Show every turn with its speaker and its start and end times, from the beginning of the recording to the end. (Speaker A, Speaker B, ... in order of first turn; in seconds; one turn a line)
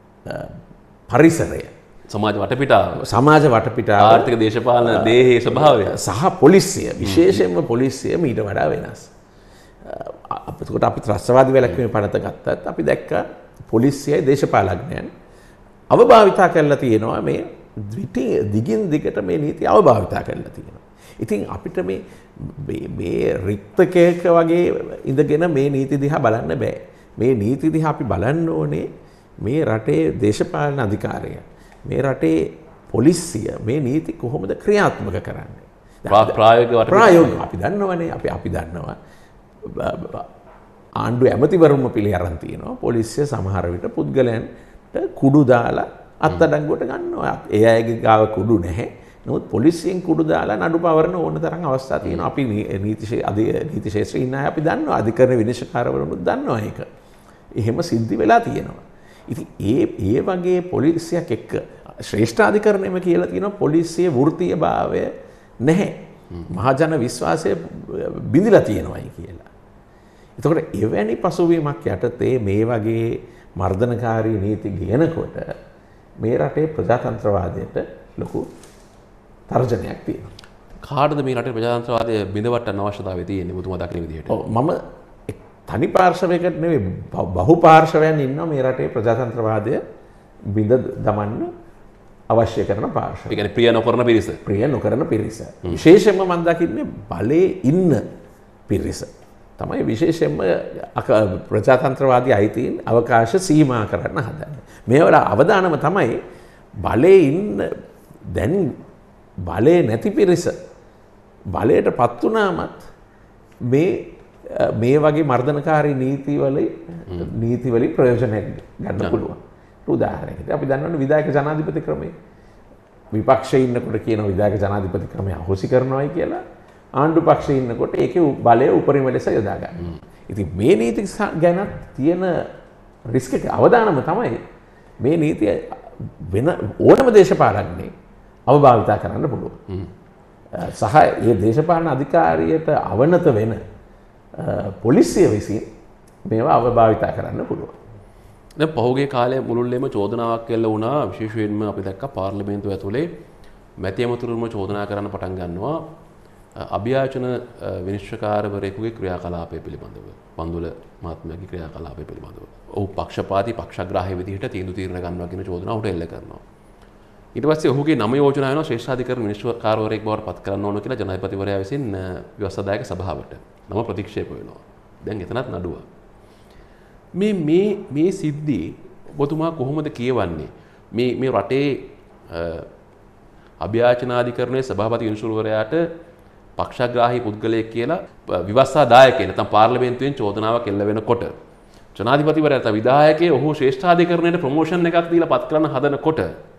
Speaker A: 0.2-0.6
Speaker A: 1.1-1.7
Speaker B: 2.1-3.0
Speaker A: 3.0-9.1
Speaker B: 4.0-6.0
Speaker B: 7.0-7.4
Speaker A: 9.8-15.1
Speaker A: 15.9-28.9
Speaker A: 29.4-39.0
Speaker B: 36.1-37.4
Speaker A: 39.6-40.3
Speaker A: 41.0-56.9
Speaker A: 57.6-65.1
Speaker A: 65.6-69.5
Speaker A: 70.4-75.5
Speaker A: 76.2-78.5
Speaker A: 79.5-80.3
Speaker B: 80.8-84.4
Speaker A: 84.3-89.8
Speaker A: 90.5-91.5
Speaker A: 92.3-93.4
Speaker B: 93.3-94.4
Speaker A: 94.5-98.0
Speaker A: 98.7-106.2
Speaker A: 106.8-107.7
Speaker A: 108.3-108.8
Speaker A: 109.5-110.5
Speaker A: 111.5-112.8
Speaker A: 113.7-122.1
Speaker A: 123.1-126.4
Speaker A: 127.0-132.3
Speaker A: 133.1-134.4
Speaker A: 135.0-137.9
Speaker A: 138.5-139.6
Speaker A: 140.6-143.6
Speaker A: 144.4-145.7
Speaker A: 146.3-147.8
Speaker B: 148.6-153.1
Speaker B: 153.8-155.9
Speaker B: 156.6-166.4
Speaker B: 167.4-175.9
Speaker B: 177.2-182.7
Speaker B: 183.6-185.9
Speaker B: 186.6-191.3
Speaker B: 191.9-196.3